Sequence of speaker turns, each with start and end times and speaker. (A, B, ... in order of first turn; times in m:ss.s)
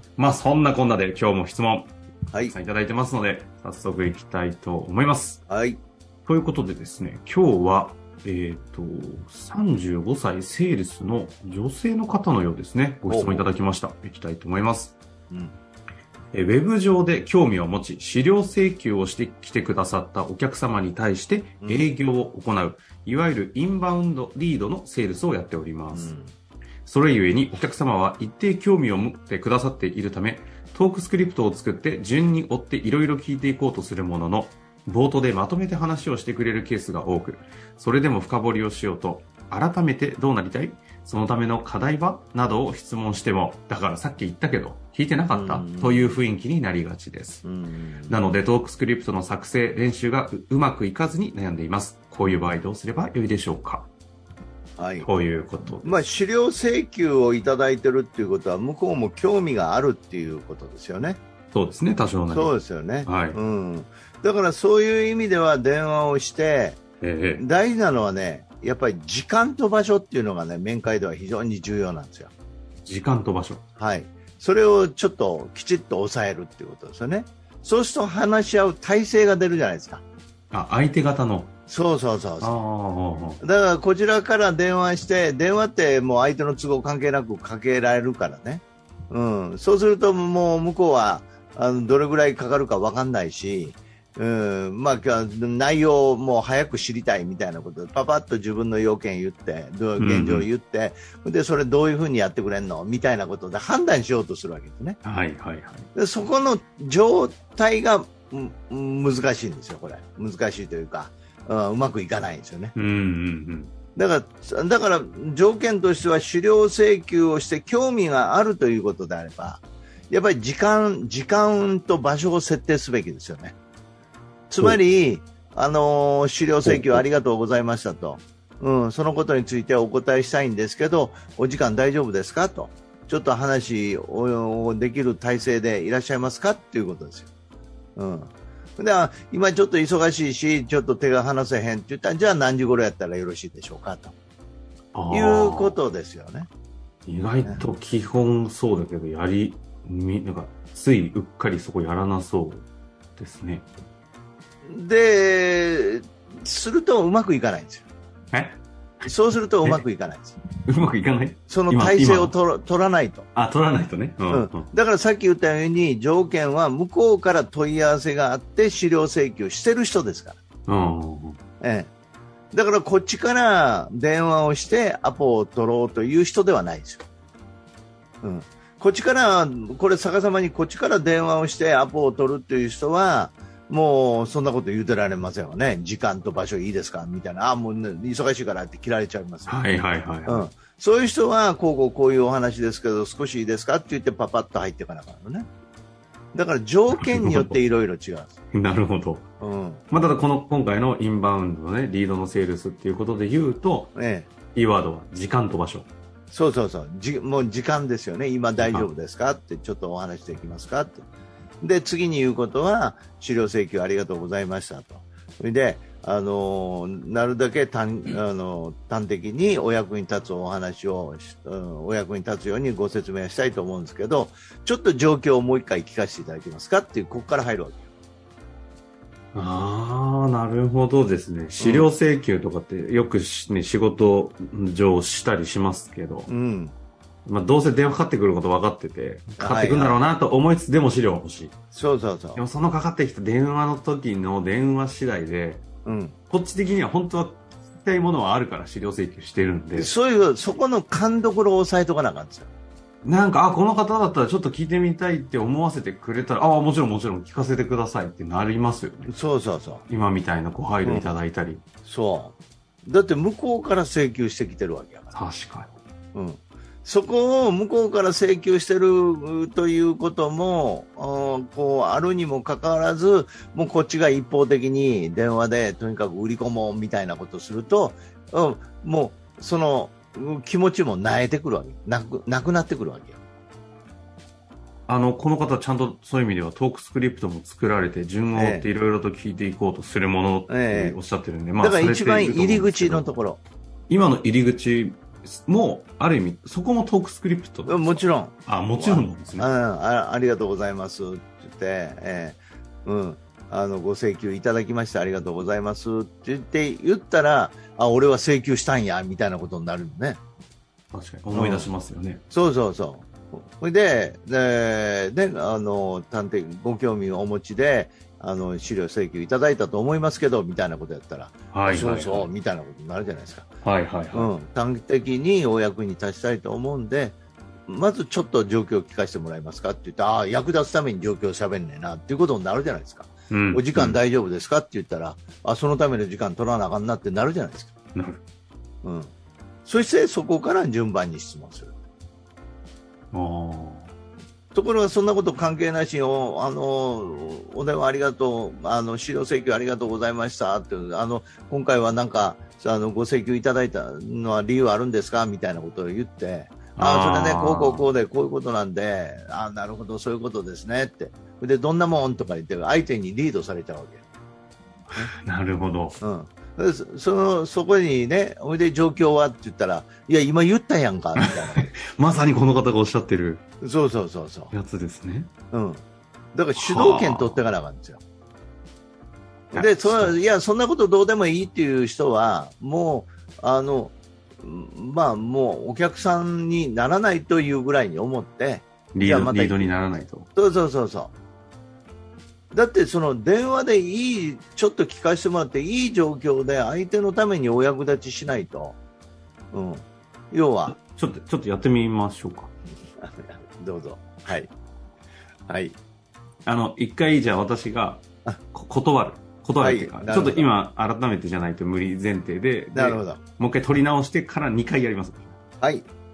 0:00.2-0:05.4 A
0:05.5-0:05.8 B
0:06.2-0:15.0 A
0:13.1-0:13.5 B
0:15.3-0:15.6 B
0:16.3-0:26.1 A
0:21.6-0:21.9 B
0:25.9-0:26.4 B
0:26.8-0:47.4 A
0:45.3-0:46.2 B
0:47.4-0:48.2 B
0:48.1-0:53.9 A
0:54.8-0:55.1 B
0:55.0-0:56.1 A
0:55.8-1:01.2 B
1:01.5-1:03.4 A
1:02.3-1:06.8 B
1:07.0-1:07.4 A
1:07.4-1:12.3 B
1:12.8-1:13.6 A
1:13.8-1:20.0 B
1:20.5-1:21.5 A
1:21.7-1:22.6 B
1:22.4-1:23.4 A
1:23.4-1:45.0 B
1:40.0-1:40.5 A
1:45.0-1:45.9 A
1:46.0-1:52.8 B
1:52.8-1:53.7 A
1:54.0-2:03.6 B
2:04.5-2:17.3 B
2:06.6-2:07.1 A
2:18.0-2:24.1 B
2:24.9-2:25.8 A
2:25.1-2:26.5 B
2:27.1-2:33.7 A
2:34.6-2:37.9 B
2:38.3-2:39.9 A
2:39.1-2:40.4 B
2:40.6-2:42.4 A
2:41.5-2:43.3 B
2:43.4-2:44.7 A
2:44.3-2:50.4 B
2:50.7-2:51.4 A
2:51.6-2:51.9 B
2:52.5-2:57.0 B
2:58.2-3:09.6 B
3:09.5-3:10.5 A
3:10.3-3:15.5 B
3:16.3-3:18.4 B
3:16.9-3:17.6 A
3:18.5-3:19.3 A
3:19.4-3:19.8 B
3:19.9-3:24.0 A
3:24.0-3:24.3 B
3:24.5-3:25.9 A
3:26.3-3:31.1 B
3:28.6-3:28.9 A
3:31.6-3:47.8 B
3:49.3-3:56.3 A
3:51.6-3:51.9 B
3:56.3-3:56.8 B
3:57.3-4:01.6 A
3:59.4-4:00.0 B
4:01.7-4:02.4 B
4:02.4-4:05.6 A
4:05.8-4:06.2 B
4:06.3-4:10.0 A
4:09.7-4:12.5 B
4:13.0-4:19.1 A
4:19.1-4:19.8 B
4:19.9-4:21.6 A
4:20.8-4:21.2 B
4:21.8-4:25.2 B
4:25.1-4:25.7 A
4:26.1-4:43.2 B
4:44.9-4:53.1 A
4:48.3-4:48.7 B
4:50.5-4:51.0 B
4:51.6-4:53.4 B
4:53.9-4:59.5 A
4:57.6-5:10.2 B
5:10.9-5:12.2 A
5:11.3-5:11.7 B
5:12.3-5:23.5 B
5:21.5-5:22.3 A
5:23.6-5:24.3 A
5:24.1-5:37.7 B
5:33.3-5:34.0 A
5:38.0-5:38.2 A
5:38.8-5:39.1 B
5:39.7-5:41.7 B
5:43.1-5:43.9 A
5:44.5-6:04.0 B
5:56.8-5:57.9 A
6:04.9-6:06.0 A
6:06.0-6:11.7 B
6:11.2-6:13.4 A
6:13.6-6:14.5 B
6:14.5-6:15.3 A
6:15.5-6:15.8 B
6:16.3-6:18.0 B
6:16.6-6:17.5 A
6:19.5-6:20.2 A
6:19.5-6:29.7 B
6:28.9-6:30.3 A
6:30.4-6:31.1 B
6:32.5-6:38.8 B
6:39.5-6:40.8 B
6:40.7-6:42.5 A
6:43.0-6:44.5 B
6:45.5-6:45.8 B
6:46.4-6:55.4 A
6:49.6-6:50.5 B
6:52.7-6:53.2 B
6:55.6-6:55.9 B